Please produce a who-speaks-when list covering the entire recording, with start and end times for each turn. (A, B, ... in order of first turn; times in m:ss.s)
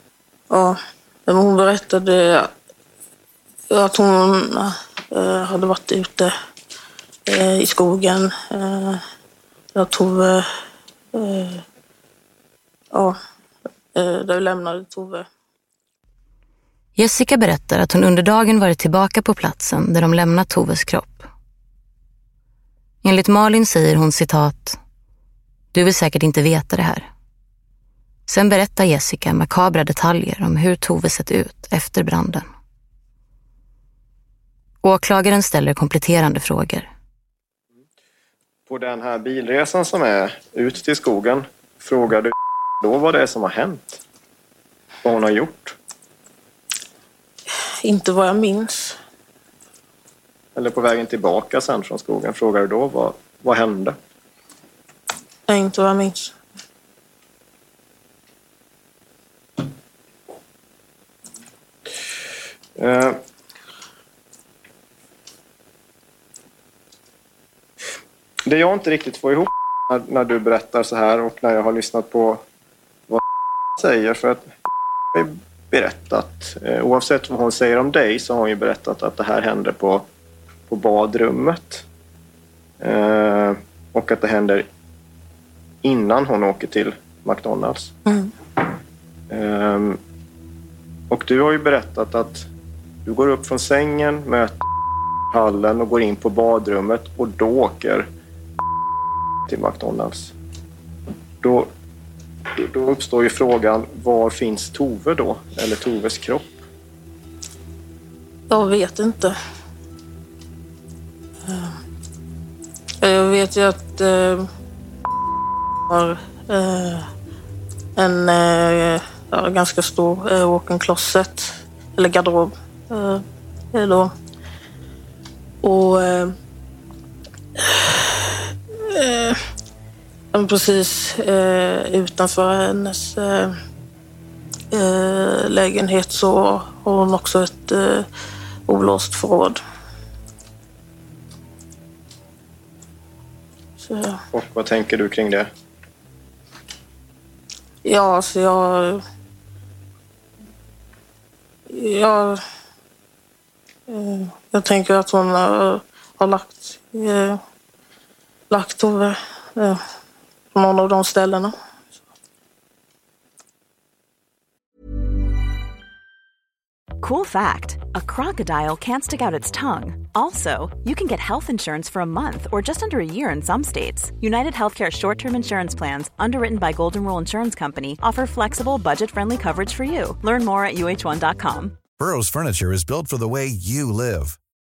0:00.5-0:02.5 A
0:03.7-0:06.3 A
0:07.3-0:09.0 A
0:09.8-0:10.5 A
0:11.1-0:11.6 A
0:14.0-0:15.3 A
0:17.0-0:21.3 B
0:23.0-0:24.8 B
0:25.7-0:27.1 B
0:28.3-0:32.5 B
0:34.8-0:36.9 B
0:38.7-0:44.0 C
0:45.0-0:45.8 C
0:47.8-0:49.0 A
0:50.6-0:54.0 C
0:55.5-0:56.3 A
1:02.8-1:03.2 C
1:08.5-1:12.4 C
1:13.8-1:14.5 C
1:15.1-1:20.0 C
1:20.7-1:21.8 C
1:22.8-1:24.7 C
1:25.8-1:27.9 C
1:29.3-1:30.0 C
1:31.1-1:32.5 C
1:33.0-1:34.6 C
1:35.3-1:38.1 C
1:39.5-1:40.3 C
1:41.4-1:41.7 C
1:42.6-1:46.5 C
1:48.5-1:49.4 A
1:51.5-1:51.7 A
1:53.0-1:54.5 A
1:55.9-1:57.1 A
1:58.0-2:04.1 A
2:05.6-2:06.4 A
2:07.6-2:09.4 A
2:10.3-2:13.6 A
2:14.7-2:18.1 A
2:18.7-2:19.6 A
2:23.8-2:24.2 A
2:24.3-2:25.5 C
2:27.8-2:29.0 A
2:31.7-2:32.4 A
2:33.9-2:37.4 A
2:38.5-2:39.8 A
2:40.5-2:41.6 A
2:47.0-3:01.8 D
3:02.0-3:04.4 E